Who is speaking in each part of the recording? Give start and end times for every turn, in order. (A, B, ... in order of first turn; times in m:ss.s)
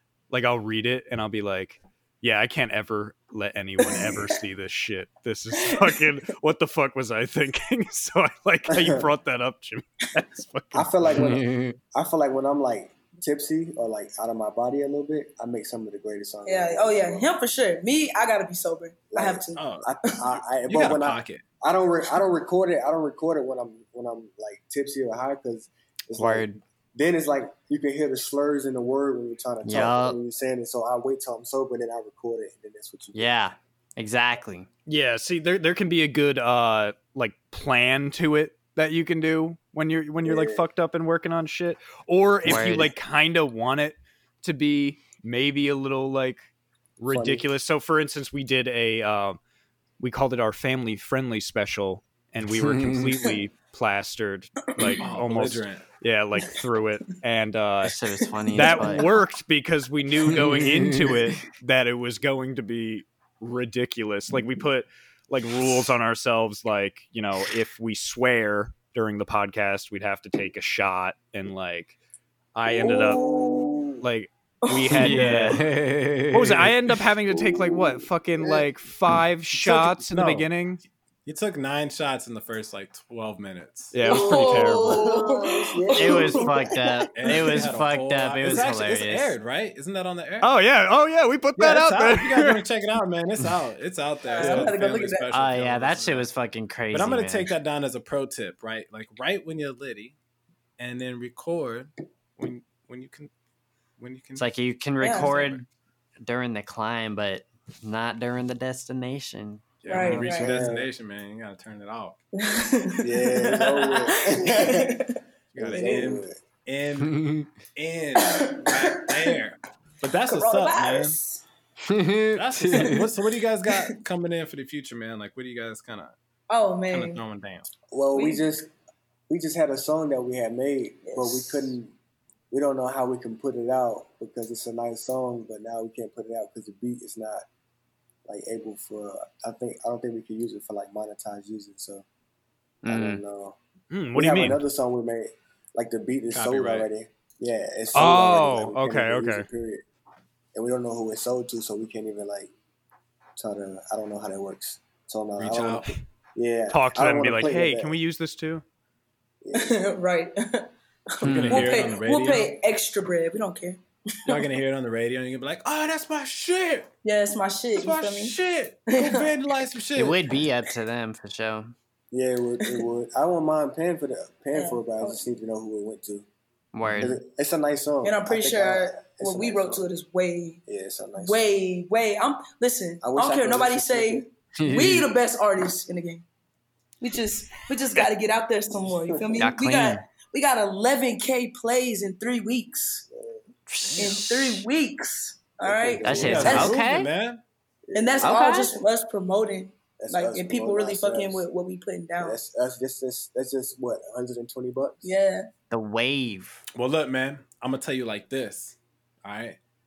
0:00.3-0:11.1 A
0:03.9-0:04.2 B
0:05.6-0:06.0 B
0:08.7-0:09.1 C
0:10.7-0:17.3 C
0:11.1-0:11.8 D
0:16.4-0:19.6 B
0:19.1-0:33.4 C
0:19.6-0:19.9 E
0:20.6-0:21.4 E
0:26.1-0:26.6 D
0:29.6-0:30.2 D
0:33.1-0:34.7 D
0:34.9-0:49.4 A
0:40.2-0:40.6 C
0:42.4-0:42.9 D
0:47.1-0:47.4 C
0:50.0-0:57.9 A
0:52.7-0:53.0 D
0:55.0-0:55.8 E
0:57.9-0:59.1 D
0:58.5-1:12.0 A
0:58.5-0:59.2 B
1:00.4-1:01.2 D
1:12.5-1:13.2 A
1:12.7-1:14.0 C
1:13.0-1:13.6 B
1:14.0-1:15.6 A
1:14.7-1:15.1 B
1:14.9-1:16.7 D
1:15.0-1:15.6 E
1:16.3-1:20.8 A
1:17.3-1:18.6 C
1:19.6-1:20.5 E
1:21.2-1:24.3 E
1:23.9-1:25.0 A
1:24.1-1:27.6 B
1:24.1-1:26.8 C
1:25.9-1:29.3 D
1:27.1-1:30.5 E
1:30.4-1:32.6 A
1:31.6-1:36.3 E
1:34.3-1:34.7 C
1:34.3-1:35.3 B
1:35.3-1:37.5 D
1:36.9-1:40.2 E
1:40.8-1:43.3 E
1:44.0-1:45.6 E
1:44.4-1:45.6 D
1:45.0-1:45.3 B
1:46.2-1:50.3 D
1:49.8-1:52.2 E
1:49.9-1:50.6 B
1:50.0-1:50.9 C
1:52.4-1:55.1 B
1:53.0-1:55.0 C
1:55.5-1:57.2 E
1:55.6-1:56.4 C
1:55.7-1:56.0 B
1:57.0-1:57.5 D
1:57.7-2:01.2 E
1:58.2-1:59.3 B
2:00.2-2:01.4 B
2:01.9-2:03.0 D
2:02.3-2:06.1 E
2:06.5-2:07.2 B
2:06.9-2:07.7 E
2:07.9-2:08.7 C
2:08.1-2:08.4 B
2:09.3-2:11.9 C
2:11.0-2:11.7 B
2:12.5-2:17.4 C
2:18.3-2:22.0 C
2:22.8-2:23.2 D
2:22.8-2:23.6 C
2:23.9-2:24.6 A
2:24.2-2:29.8 C
2:26.3-2:26.9 E
2:27.9-2:29.5 A
2:28.0-2:28.3 E
2:30.5-2:32.5 C
2:33.4-2:37.9 C
2:35.4-2:36.0 E
2:36.7-2:38.6 A
2:39.4-2:39.8 C
2:39.5-2:40.7 B
2:41.2-2:41.8 D
2:41.2-2:42.5 E
2:41.2-2:44.4 B
2:44.2-2:46.9 E
2:47.0-2:48.4 B
2:47.7-2:50.4 E
2:48.9-2:49.3 B
2:50.0-2:51.7 D
2:52.1-2:56.3 C
2:54.5-2:55.2 B
2:56.7-2:57.2 D
2:56.9-2:59.9 C
2:58.0-3:00.6 B
3:00.7-3:01.5 C
3:01.2-3:06.2 B
3:03.0-3:04.3 C
3:04.6-3:05.1 D
3:07.0-3:13.0 B
3:08.8-3:09.5 C
3:09.4-3:10.0 D
3:13.1-3:13.4 C
3:13.7-3:14.6 D
3:13.9-3:14.2 E
3:14.0-3:16.8 B
3:15.6-3:16.7 C
3:16.0-3:17.1 D
3:16.0-3:17.4 E
3:17.9-3:18.4 C
3:17.9-3:22.4 B
3:18.2-3:18.8 D
3:20.0-3:21.4 C
3:22.2-3:25.1 C
3:25.0-3:25.5 B
3:25.7-3:26.6 D
3:26.7-3:29.6 E